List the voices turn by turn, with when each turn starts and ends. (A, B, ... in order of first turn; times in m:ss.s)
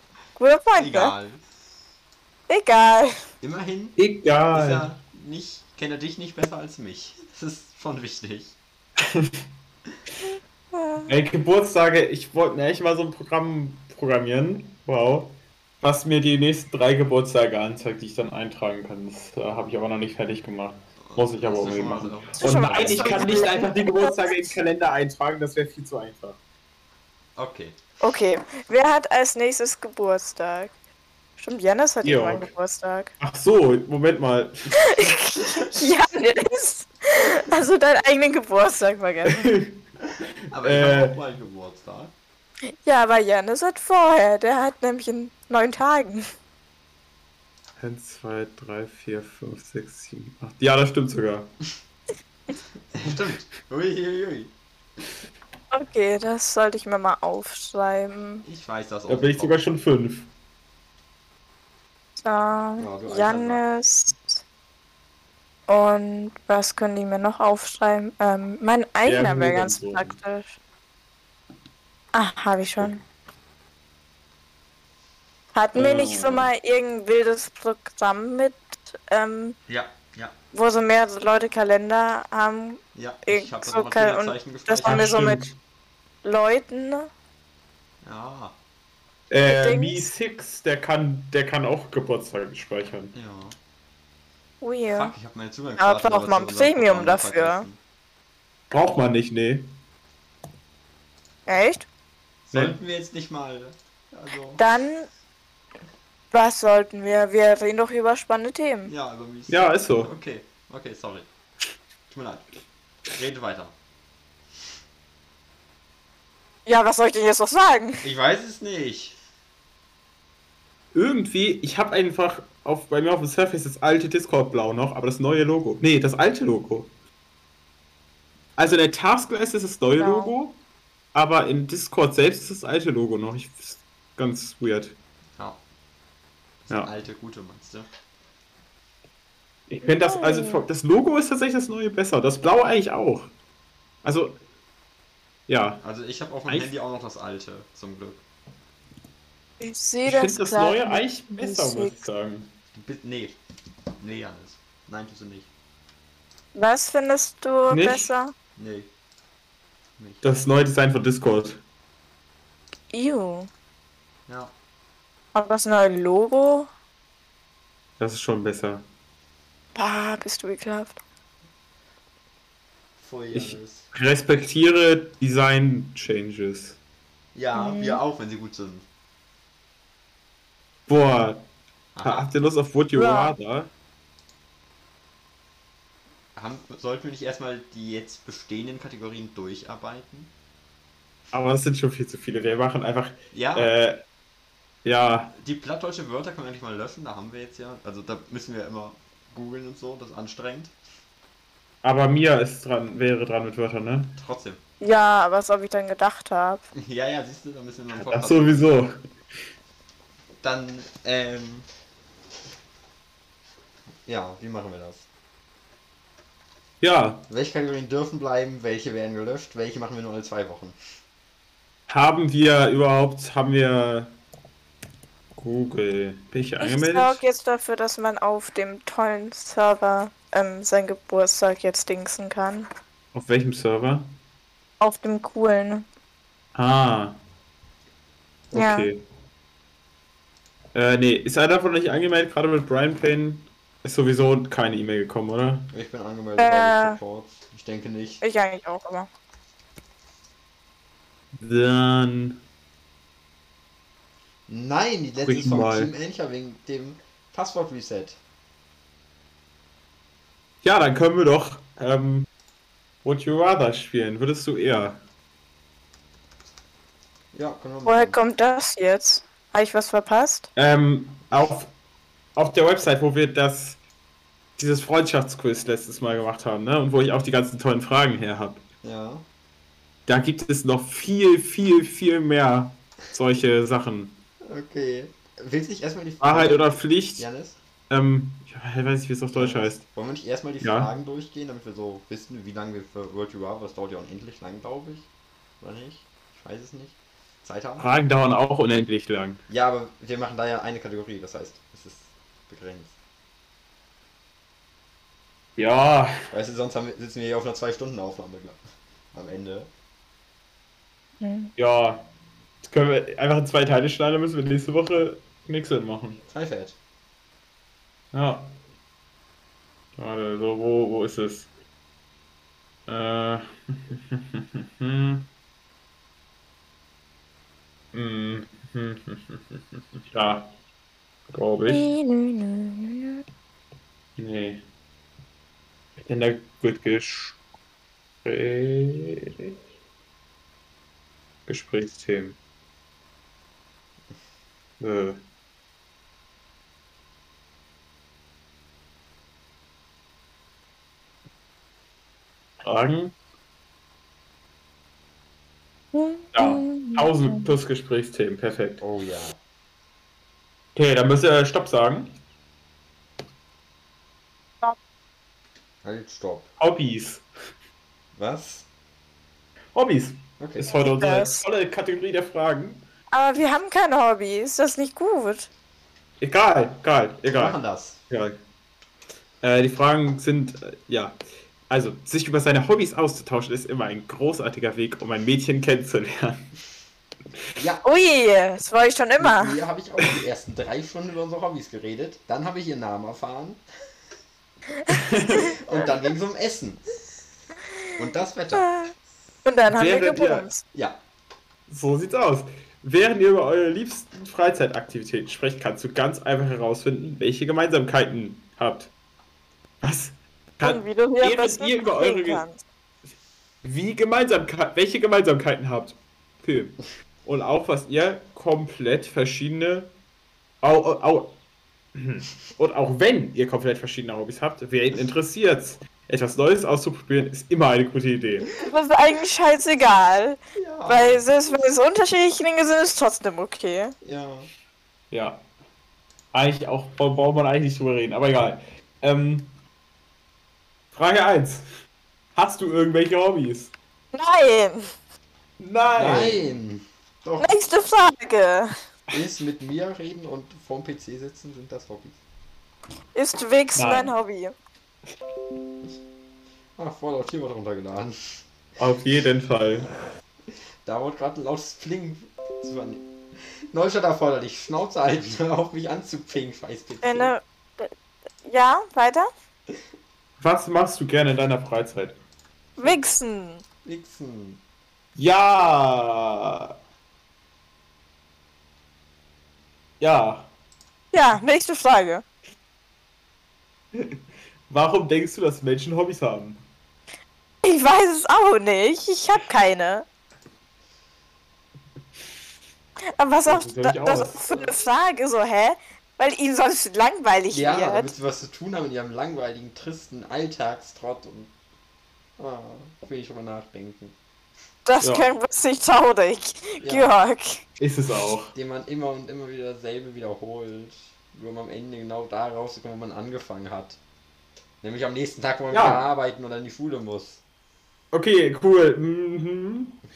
0:00.4-0:01.1 A
0:00.8-0:01.4 B
0:02.5-0:03.1 A
0:03.4-0:04.0 B
0:04.0-0:04.9 C
0:04.5-0:08.6 B
0:09.0-0:09.4 C
0:10.7-0:11.1 A
0:11.1-0:26.4 C
0:21.0-0:23.6 B
0:22.4-0:24.6 A
0:27.4-0:27.8 B
0:28.0-0:30.7 A
0:31.4-0:33.1 A
0:32.0-0:32.5 C
0:33.2-0:34.8 C
0:34.8-0:39.5 A
0:39.3-0:39.8 C
0:40.5-0:42.1 B
0:40.6-0:41.2 C
0:42.8-0:46.2 A
0:47.8-0:51.5 C
0:52.9-0:54.5 B
0:55.7-0:58.4 A
0:58.4-0:59.8 B
0:59.1-1:00.3 C
1:02.2-1:04.4 A
1:02.8-1:03.6 B
1:05.7-1:10.6 A
1:09.1-1:10.2 C
1:12.1-1:13.0 A
1:15.5-1:19.6 A
1:15.8-1:16.5 C
1:19.7-1:20.4 B
1:20.5-1:25.5 A
1:23.0-1:25.2 B
1:24.8-1:25.6 C
1:26.2-1:27.1 A
1:28.0-1:28.6 B
1:29.3-1:33.1 C
1:29.5-1:30.0 A
1:33.1-1:33.6 B
1:34.6-1:35.2 A
1:34.9-1:37.8 B
1:35.8-1:37.7 A
1:38.7-1:39.8 C
1:41.5-1:41.8 A
1:42.5-1:44.6 B
1:42.5-1:42.8 C
1:44.6-1:45.1 A
1:46.3-1:48.9 A
1:48.9-1:51.3 B
1:49.5-1:50.1 C
1:52.1-1:52.5 B
1:53.1-1:53.7 B
1:56.7-1:58.0 A
1:58.0-1:59.2 B
2:00.9-2:06.9 C
2:08.6-2:10.6 C
2:10.0-2:10.3 A
2:11.1-2:15.0 C
2:16.6-2:17.9 B
2:19.7-2:23.3 C
2:20.0-2:20.6 A
2:24.0-2:24.4 C
2:25.5-2:25.8 C
2:25.8-2:28.2 B
2:29.6-2:32.1 A
2:30.1-2:32.5 C
2:32.8-2:33.4 B
2:34.0-2:35.5 B
2:36.6-2:38.3 A
2:37.7-2:38.1 C
2:38.6-2:38.9 B
2:40.0-2:40.3 B
2:40.2-2:41.6 C
2:42.9-2:43.5 A
2:44.3-2:44.5 B
2:45.3-2:46.7 A
2:48.0-2:48.8 C
2:49.8-2:51.0 A
2:53.0-2:53.9 B
2:53.3-2:56.8 C
2:57.4-2:58.9 B
2:57.5-2:58.0 A
3:00.9-3:01.5 C
3:02.0-3:02.3 B
3:02.0-3:03.7 C
3:03.0-3:03.3 A
3:06.4-3:10.3 B
3:11.3-3:14.0 C
3:13.3-3:13.7 B
3:14.8-3:15.3 C
3:15.4-3:20.7 B
3:21.8-3:24.2 C
3:24.2-3:24.6 B
3:24.8-3:26.6 A
3:26.8-3:28.6 B
3:27.9-3:28.9 C
3:30.4-3:31.7 B
3:34.1-3:35.1 B
3:36.8-3:37.2 C
3:37.3-3:40.8 B
3:41.9-3:44.2 C
3:45.4-3:47.2 C
3:46.6-3:52.7 A
3:53.1-3:54.2 C
3:54.8-3:55.8 A
3:56.6-3:57.2 C
3:58.5-3:58.9 A
3:58.5-3:59.0 C
4:00.7-4:05.7 C
4:05.7-4:08.2 B
4:06.4-4:07.0 A
4:08.2-4:09.1 A
4:11.4-4:12.4 C
4:14.5-4:18.2 B
4:15.2-4:15.9 C
4:20.6-4:22.3 C
4:23.0-4:25.0 C
4:27.3-4:28.2 B
4:27.9-4:30.5 A
4:30.6-4:31.7 C
4:32.4-4:33.8 C
4:34.6-4:38.6 C
4:38.8-4:39.2 B
4:40.1-4:44.2 C
4:44.4-4:47.6 B
4:46.2-4:47.3 C
4:47.9-4:49.8 C
4:49.3-4:55.1 B
4:50.6-4:50.9 C
4:55.6-4:57.9 B
4:57.8-4:59.4 C
4:59.5-5:02.9 B
5:05.6-5:06.1 C
5:06.3-5:08.6 B
5:09.1-5:09.7 B
5:11.2-5:11.5 A
5:11.6-5:12.0 C
5:12.6-5:16.2 C
5:16.3-5:16.8 B
5:18.1-5:18.6 C
5:20.0-5:21.5 C
5:22.9-5:25.3 C
5:27.9-5:30.5 C
5:31.3-5:31.9 C
5:31.7-5:33.2 A
5:34.2-5:34.6 C
5:36.1-5:37.4 C
5:38.2-5:39.6 C
5:41.5-5:42.4 C
5:44.8-5:45.2 C
5:52.6-5:53.2 C
5:55.9-5:57.5 A
5:56.4-5:58.8 C
5:58.8-5:59.4 B
6:00.8-6:02.2 C
6:05.8-6:06.5 B
6:06.6-6:07.2 C
6:08.2-6:08.7 B
6:09.7-6:12.8 C
6:10.4-6:10.8 B
6:10.9-6:11.4 A
6:13.1-6:15.5 A
6:16.2-6:17.6 C
6:17.3-6:18.0 B
6:18.1-6:18.4 C
6:19.4-6:21.2 C
6:21.7-6:26.4 C
6:27.6-6:27.8 B
6:27.8-6:29.6 A
6:29.2-6:33.6 B
6:34.9-6:35.6 A
6:34.9-6:35.5 C
6:35.2-6:36.8 B
6:38.0-6:38.7 B
6:38.6-6:38.9 A
6:39.4-6:40.6 A
6:39.7-6:40.5 C
6:41.7-6:48.9 C
6:49.8-6:52.4 C
6:50.6-6:52.6 A
6:53.6-6:59.9 C
7:00.6-7:01.4 C
7:02.0-7:08.5 C
7:08.6-7:13.9 A
7:10.6-7:11.3 B
7:14.0-7:14.5 B
7:15.1-7:15.4 C
7:16.3-7:19.5 C
7:20.9-7:21.7 C
7:22.4-7:23.7 C
7:24.1-7:24.9 A
7:25.6-7:26.4 C
7:26.0-7:27.6 B
7:27.4-7:28.7 A
7:29.1-7:32.2 B
7:33.2-7:34.6 A
7:33.8-7:34.1 C
7:36.8-7:38.2 B
7:38.8-7:39.9 C
7:40.8-7:43.1 B
7:43.7-7:47.3 B
7:47.0-7:47.9 A
7:48.4-7:49.3 A
7:50.4-7:52.2 C
7:52.8-7:53.6 A
7:53.8-7:54.6 B
7:55.2-7:56.8 C
8:00.0-8:00.5 C
8:01.1-8:02.2 A
8:03.9-8:06.6 C
8:07.6-8:10.1 A
8:13.2-8:18.1 A
8:13.5-8:14.4 C
8:14.5-8:14.8 B
8:17.5-8:21.5 B
8:22.4-8:24.2 B
8:24.9-8:27.6 A
8:25.0-8:25.3 C
8:26.8-8:27.1 B
8:27.8-8:28.5 C
8:28.5-8:34.0 B
8:34.8-8:37.4 B
8:35.7-8:36.0 C
8:38.1-8:40.0 C